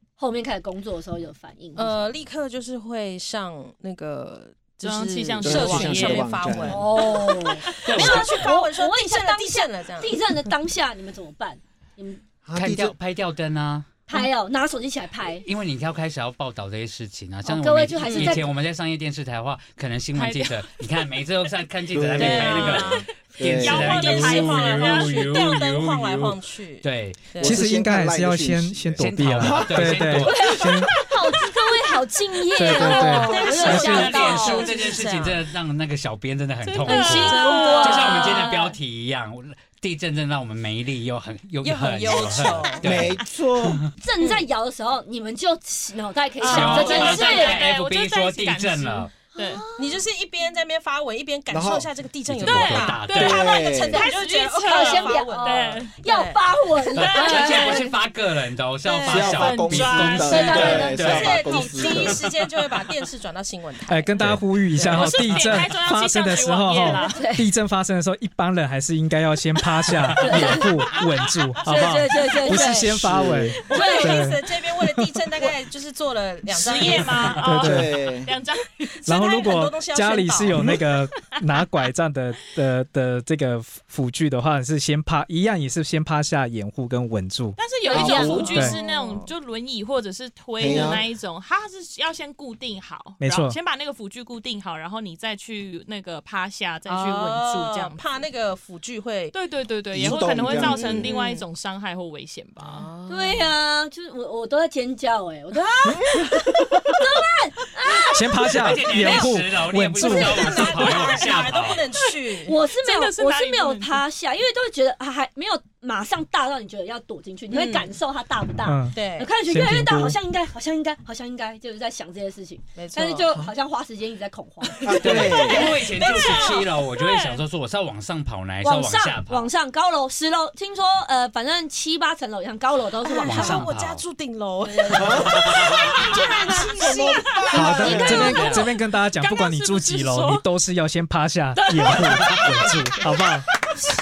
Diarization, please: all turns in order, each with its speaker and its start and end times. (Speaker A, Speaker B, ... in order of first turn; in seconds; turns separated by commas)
Speaker A: 0.2-2.0, Speaker B: 1.8-10.2, Speaker C: 4.8-6.3, Speaker D: 5.4-6.9, Speaker A: 6.7-12.2, Speaker E: 7.9-8.2, Speaker D: 8.0-8.2, Speaker D: 12.4-12.9, Speaker E: 12.6-13.9, Speaker A: 14.1-15.4, Speaker E: 15.4-27.2, Speaker A: 17.4-18.5, Speaker B: 18.0-18.4, Speaker C: 20.1-20.8, Speaker D: 21.9-24.5, Speaker B: 22.2-23.1, Speaker C: 22.3-22.8, Speaker C: 23.5-25.2, Speaker B: 23.7-27.7, Speaker D: 27.4-30.3, Speaker F: 27.4-30.9, Speaker E: 29.0-30.7, Speaker A: 30.2-34.7, Speaker F: 32.6-34.0, Speaker B: 32.6-35.5, Speaker E: 33.5-43.8, Speaker C: 36.6-38.6, Speaker A: 36.9-38.7, Speaker B: 36.9-38.3, Speaker B: 41.6-43.1, Speaker D: 42.8-43.9, Speaker A: 44.0-47.6, Speaker C: 46.4-49.6, Speaker E: 46.4-49.1, Speaker B: 46.5-47.2, Speaker A: 49.4-50.0, Speaker B: 49.8-56.5, Speaker D: 51.5-52.5, Speaker E: 52.3-53.5, Speaker C: 52.5-56.0, Speaker D: 53.1-54.0, Speaker A: 54.6-57.9, Speaker E: 56.9-62.2, Speaker C: 57.0-57.9, Speaker B: 57.2-57.7, Speaker B: 58.8-64.2, Speaker D: 59.0-62.3, Speaker C: 59.2-60.8, Speaker A: 60.2-61.8, Speaker F: 63.9-74.5, Speaker B: 64.8-65.1, Speaker C: 64.8-67.2, Speaker A: 66.9-67.5, Speaker E: 70.1-70.7, Speaker A: 70.2-70.7, Speaker A: 71.6-73.1, Speaker B: 72.3-72.7, Speaker D: 72.9-73.6, Speaker B: 73.5-77.5, Speaker A: 73.7-74.2, Speaker C: 76.5-78.8, Speaker F: 77.4-78.0, Speaker D: 77.6-78.3, Speaker B: 78.8-80.8, Speaker F: 79.0-87.6, Speaker C: 87.6-98.0, Speaker A: 87.9-88.5, Speaker B: 87.9-89.3, Speaker D: 87.9-88.6, Speaker F: 88.5-88.8, Speaker D: 90.6-91.1, Speaker B: 90.7-91.0, Speaker F: 93.2-93.6, Speaker B: 96.9-99.4, Speaker C: 99.3-102.9, Speaker D: 99.9-101.1, Speaker B: 100.0-101.4, Speaker B: 102.6-103.5, Speaker A: 103.1-108.5, Speaker D: 105.8-106.9, Speaker F: 108.1-110.6, Speaker E: 108.4-111.8, Speaker B: 110.0-112.6, Speaker A: 112.4-125.2, Speaker C: 112.8-114.0, Speaker B: 117.5-117.9, Speaker F: 118.7-119.0, Speaker B: 118.9-119.3, Speaker F: 119.5-120.2, Speaker B: 122.8-123.3, Speaker D: 124.8-125.7, Speaker B: 124.8-126.8, Speaker E: 125.0-129.5, Speaker C: 126.2-127.4, Speaker A: 128.6-133.7, Speaker B: 133.0-140.4, Speaker E: 133.2-134.0, Speaker A: 134.6-135.4, Speaker D: 134.9-138.5, Speaker E: 135.2-136.1, Speaker C: 137.4-138.4, Speaker F: 137.5-143.5, Speaker A: 137.7-138.3, Speaker E: 137.8-138.7, Speaker C: 141.8-142.7, Speaker B: 141.8-142.4, Speaker E: 142.2-142.5